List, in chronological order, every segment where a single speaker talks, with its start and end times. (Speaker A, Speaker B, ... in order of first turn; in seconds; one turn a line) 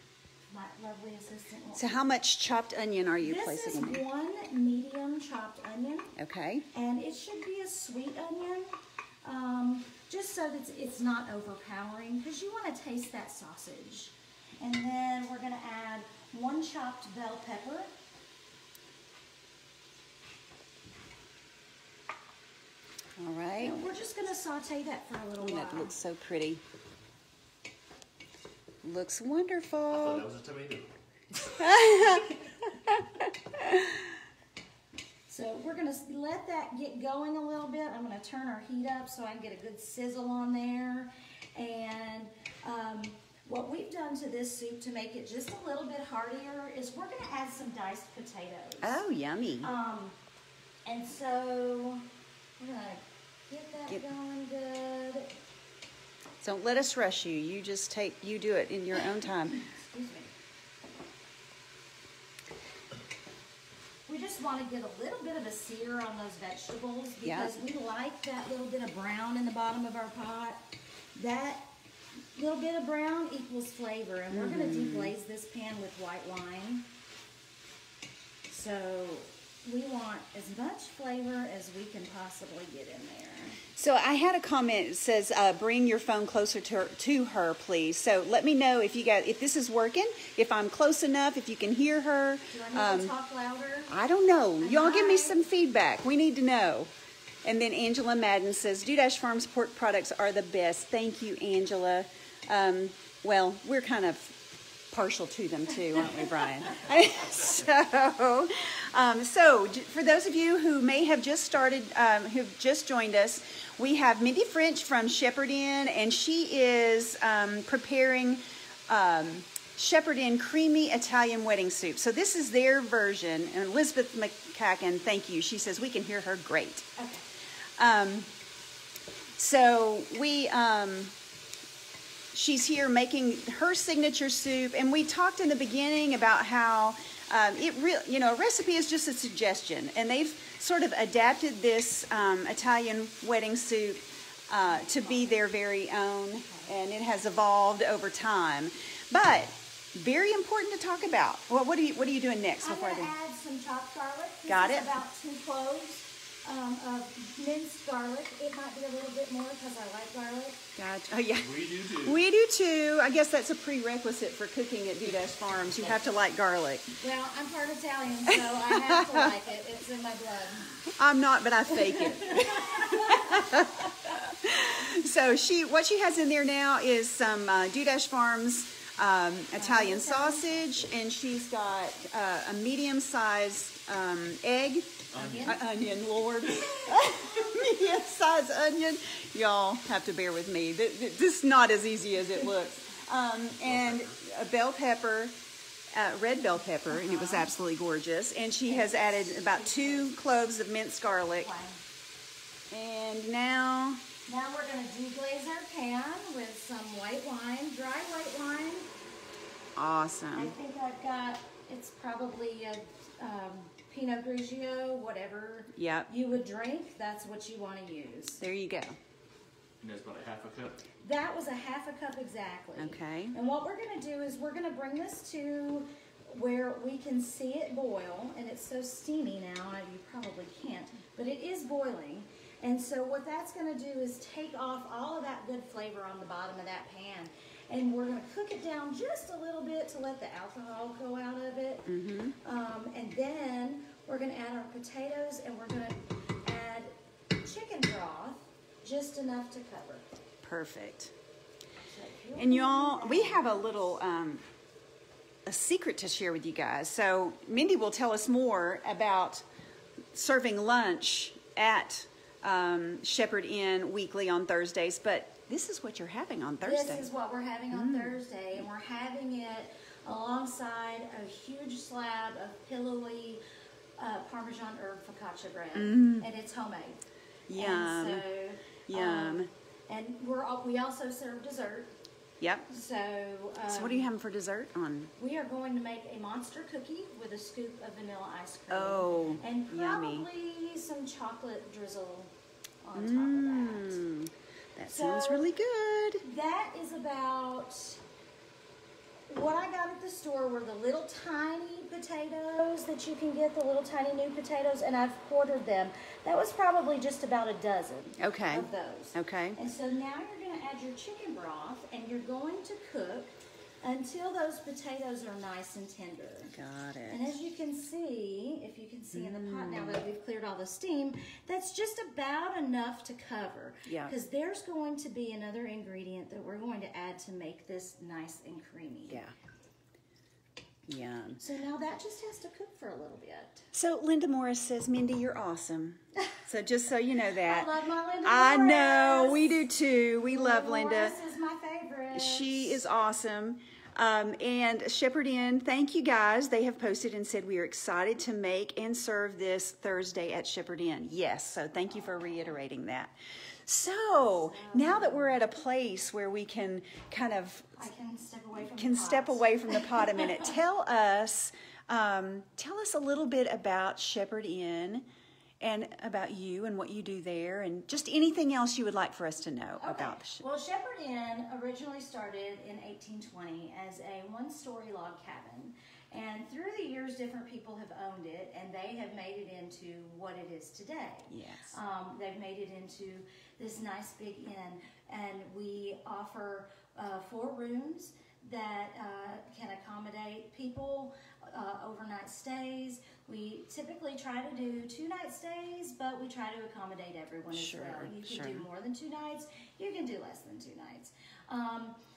Speaker A: 0.5-2.0
Speaker B: 1.7-4.0
Speaker A: 3.2-6.1
Speaker B: 6.2-6.7
Speaker A: 6.7-17.9
Speaker B: 23.2-23.8
Speaker A: 23.6-25.9
Speaker B: 25.4-26.6
Speaker B: 28.8-30.3
Speaker C: 29.9-30.9
Speaker B: 31.6-34.1
Speaker A: 35.3-49.0
Speaker B: 48.8-49.7
Speaker A: 49.6-50.1
Speaker A: 50.9-52.1
Speaker A: 52.6-55.3
Speaker B: 56.4-59.6
Speaker A: 59.5-60.3
Speaker A: 64.1-70.6
Speaker B: 67.2-67.5
Speaker A: 71.1-71.7
Speaker A: 72.3-76.8
Speaker B: 74.3-75.1
Speaker A: 78.5-83.6
Speaker B: 83.8-93.1
Speaker A: 92.5-93.9
Speaker B: 93.9-96.9
Speaker A: 94.6-95.4
Speaker B: 97.4-126.9
Speaker A: 127.0-127.2
Speaker B: 127.8-128.3
Speaker B: 129.4-131.1
Speaker B: 132.3-153.1
Speaker A: 144.6-145.3
Speaker A: 146.4-146.7
Speaker A: 152.6-160.6
Speaker B: 154.5-155.0
Speaker B: 160.8-166.9
Speaker C: 161.3-162.2
Speaker A: 167.0-170.8
Speaker B: 168.3-169.3
Speaker B: 170.9-195.3
Speaker A: 172.0-173.6
Speaker A: 179.6-180.9
Speaker C: 185.1-185.6
Speaker A: 185.1-185.6
Speaker C: 193.6-194.2
Speaker B: 195.9-201.5
Speaker A: 196.8-197.5
Speaker A: 198.6-200.1
Speaker A: 201.3-201.8
Speaker B: 202.7-204.0
Speaker A: 204.2-208.9
Speaker B: 209.8-210.5
Speaker A: 210.3-218.4
Speaker B: 215.7-216.1
Speaker B: 218.4-219.0
Speaker C: 219.8-220.8
Speaker A: 221.0-250.1
Speaker B: 222.8-223.3
Speaker B: 241.9-242.3
Speaker B: 250.4-251.1
Speaker A: 251.9-254.0
Speaker B: 252.3-254.4
Speaker B: 255.4-259.4
Speaker B: 260.1-267.1
Speaker A: 266.6-273.4
Speaker B: 267.7-268.2
Speaker A: 274.0-277.0
Speaker B: 275.7-276.3
Speaker B: 277.5-278.2
Speaker A: 277.6-281.9
Speaker B: 278.9-279.5
Speaker B: 282.4-282.7
Speaker A: 282.7-284.1
Speaker B: 283.7-285.1
Speaker A: 285.2-294.0
Speaker B: 288.7-290.2
Speaker B: 292.9-296.2
Speaker A: 294.9-295.5
Speaker A: 296.2-298.0
Speaker A: 299.3-316.5
Speaker B: 308.2-309.6
Speaker B: 316.5-317.3
Speaker A: 317.1-329.2
Speaker B: 319.1-320.0
Speaker B: 323.9-324.1
Speaker B: 329.1-329.3
Speaker B: 330.9-331.4
Speaker A: 331.4-333.7
Speaker B: 333.7-337.7
Speaker A: 337.4-342.8
Speaker B: 338.2-341.1
Speaker B: 342.1-353.1
Speaker B: 353.6-357.8
Speaker A: 354.3-355.4
Speaker A: 357.8-360.5
Speaker B: 358.6-365.1
Speaker B: 365.6-370.4
Speaker A: 369.8-401.9
Speaker B: 381.3-381.8
Speaker B: 397.5-398.6